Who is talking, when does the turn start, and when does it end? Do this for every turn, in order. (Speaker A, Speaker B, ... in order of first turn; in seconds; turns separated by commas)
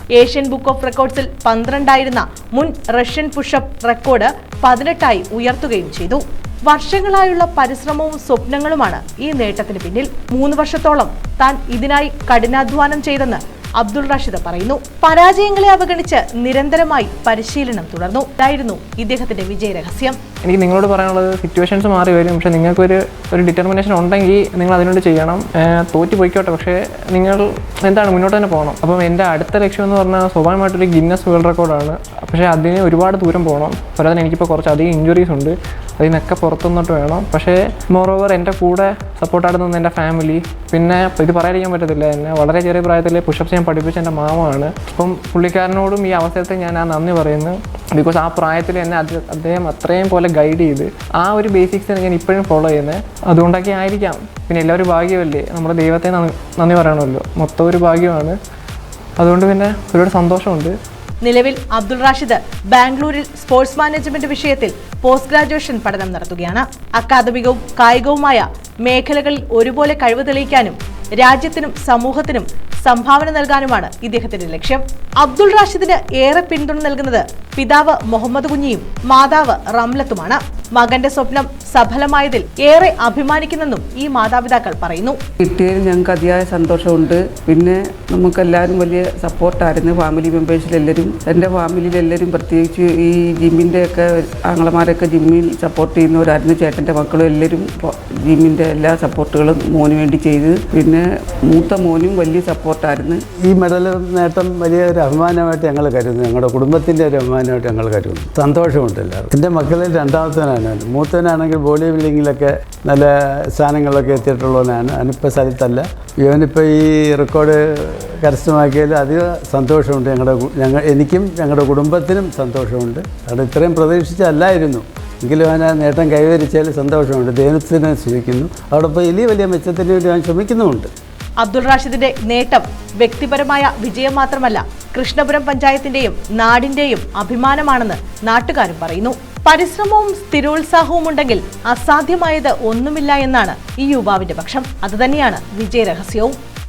Speaker A: 0.2-20.1, Speaker B: 20.4-58.4, Speaker B: 59.2-60.7, Speaker A: 61.2-85.2, Speaker C: 85.4-103.2, Speaker D: 103.4-130.9, Speaker A: 131.4-146.3